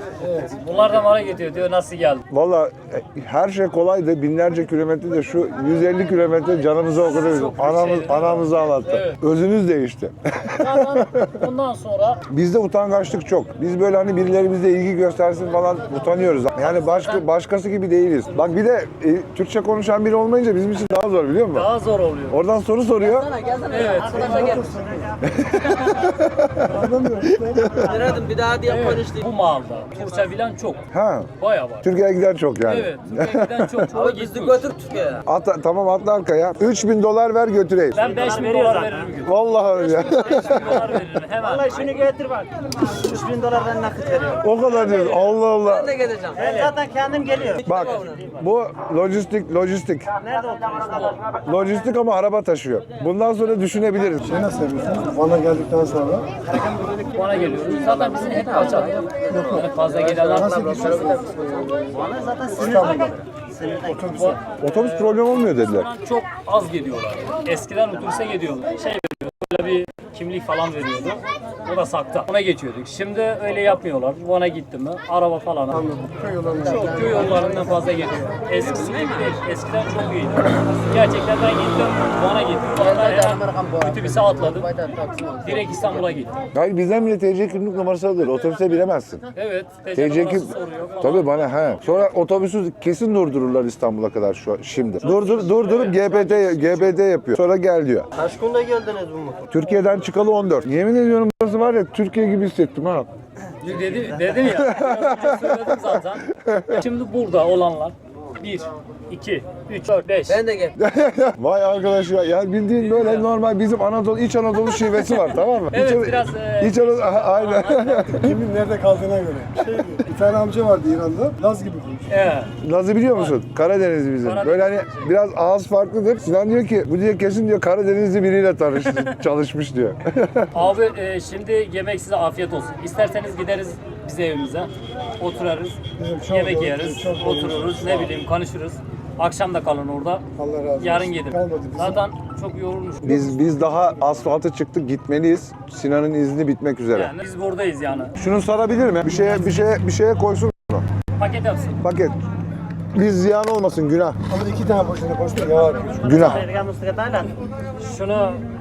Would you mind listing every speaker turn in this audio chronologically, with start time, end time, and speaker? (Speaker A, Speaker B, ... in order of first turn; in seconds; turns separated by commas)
Speaker A: 0.3-2.2, Speaker B: 2.3-11.5, Speaker A: 7.0-9.2, Speaker A: 10.6-12.2, Speaker B: 12.3-21.7, Speaker A: 16.6-17.2, Speaker A: 21.5-22.4, Speaker B: 22.3-23.3, Speaker C: 23.3-24.3, Speaker A: 23.6-24.8, Speaker D: 24.0-25.0, Speaker B: 25.3-28.0, Speaker D: 26.6-27.8, Speaker C: 27.8-29.2, Speaker A: 28.6-30.8, Speaker B: 30.9-31.3, Speaker A: 31.4-31.9, Speaker B: 31.8-33.9, Speaker A: 32.6-34.7, Speaker C: 33.9-35.2, Speaker B: 35.2-38.0, Speaker A: 37.9-39.3, Speaker C: 38.0-39.1, Speaker B: 39.2-41.0, Speaker A: 39.9-42.0, Speaker C: 40.1-40.6, Speaker C: 41.4-48.2, Speaker B: 44.4-46.0, Speaker B: 47.6-50.1, Speaker C: 50.2-51.1, Speaker B: 51.4-54.4, Speaker D: 54.3-56.3, Speaker C: 56.5-57.0, Speaker A: 57.1-61.1, Speaker C: 57.5-64.2, Speaker D: 59.3-59.7, Speaker D: 60.2-63.1, Speaker D: 63.8-64.4, Speaker A: 64.0-76.0, Speaker B: 64.6-65.9, Speaker D: 75.9-77.4, Speaker A: 76.6-84.7, Speaker C: 83.0-83.7, Speaker C: 84.8-85.3, Speaker A: 85.4-86.3, Speaker B: 86.5-89.2, Speaker A: 89.3-92.1, Speaker B: 89.9-98.1, Speaker A: 95.0-97.0, Speaker C: 98.2-99.4, Speaker B: 99.5-103.1, Speaker A: 103.6-110.4, Speaker C: 103.6-104.5, Speaker B: 104.4-106.8, Speaker C: 110.3-110.8, Speaker B: 110.8-118.4, Speaker A: 112.9-113.3, Speaker A: 114.9-118.2, Speaker D: 118.2-122.1, Speaker A: 122.1-122.5, Speaker B: 122.6-130.7, Speaker A: 124.2-125.1, Speaker A: 128.8-129.1, Speaker A: 130.5-135.8, Speaker D: 136.0-138.1, Speaker A: 136.3-140.2, Speaker D: 140.4-142.0, Speaker A: 140.8-143.3, Speaker B: 143.0-147.1, Speaker D: 143.1-143.8, Speaker A: 146.9-148.1, Speaker B: 148.2-150.8, Speaker A: 151.2-151.8, Speaker B: 151.8-152.1, Speaker B: 152.9-154.2, Speaker D: 154.3-156.2, Speaker A: 155.8-156.4, Speaker B: 156.0-156.5, Speaker A: 157.8-158.4